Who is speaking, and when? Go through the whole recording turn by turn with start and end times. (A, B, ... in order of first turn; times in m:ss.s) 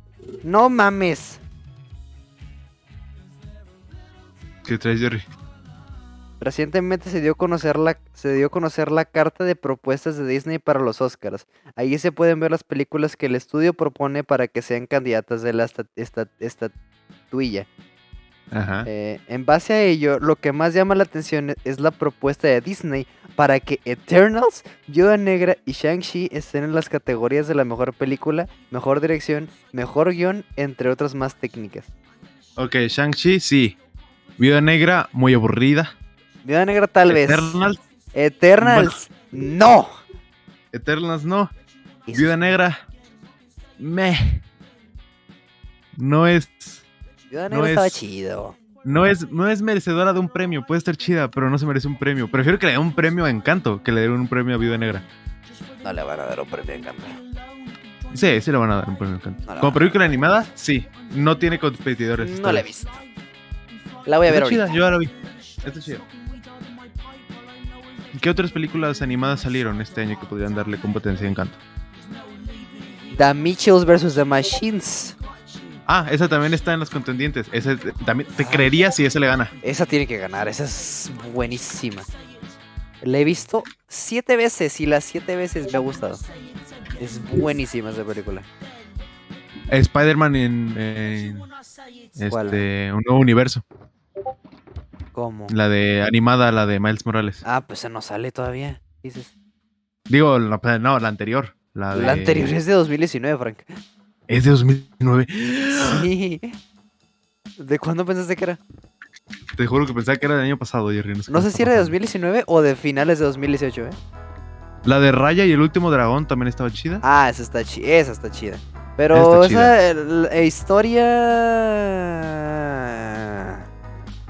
0:00.4-0:01.4 A
0:04.6-0:05.2 B
0:06.4-0:16.7 A
0:17.3-0:17.7 A
0:18.5-0:18.9 B
0:18.9-0:31.9 A
0:32.6-0:33.8 B
0:34.4-0:36.0 B
0:36.4-0:37.6 A
0:37.1-0:37.8 B
0:38.1-0:40.0 A
0:38.6-0:39.0 B
0:40.7-0:41.5 B
0:42.1-0:42.4 A
0:42.1-0:42.8 B
0:43.8-0:44.4 B
0:46.0-0:46.8 B
0:47.3-0:48.6 A
0:47.5-0:48.0 B
0:48.8-0:55.0 B
0:55.8-0:57.2 A
0:58.1-1:02.7 B
0:59.4-1:00.0 A
1:02.2-1:03.0 A
1:04.1-1:04.7 A
1:04.3-1:06.1 B
1:08.1-1:11.6 B
1:13.1-1:15.2 A
1:15.9-1:19.5 B
1:18.4-1:18.7 A
1:19.6-1:22.1 A
1:23.0-1:26.2 A
1:27.0-1:28.5 A
1:29.7-1:31.5 B
1:32.2-1:33.6 B
1:32.3-1:32.6 A
1:35.1-1:35.6 A
1:35.5-1:37.4 B
1:37.4-1:39.3 A
1:40.1-1:42.5 B
1:41.9-1:43.7 A
1:44.3-1:46.1 B
1:45.7-1:46.6 A
1:47.6-1:48.6 A
1:49.6-1:51.9 B
1:51.3-1:54.0 A
1:54.8-1:57.0 B
1:57.0-2:03.6 A
1:59.1-1:59.7 B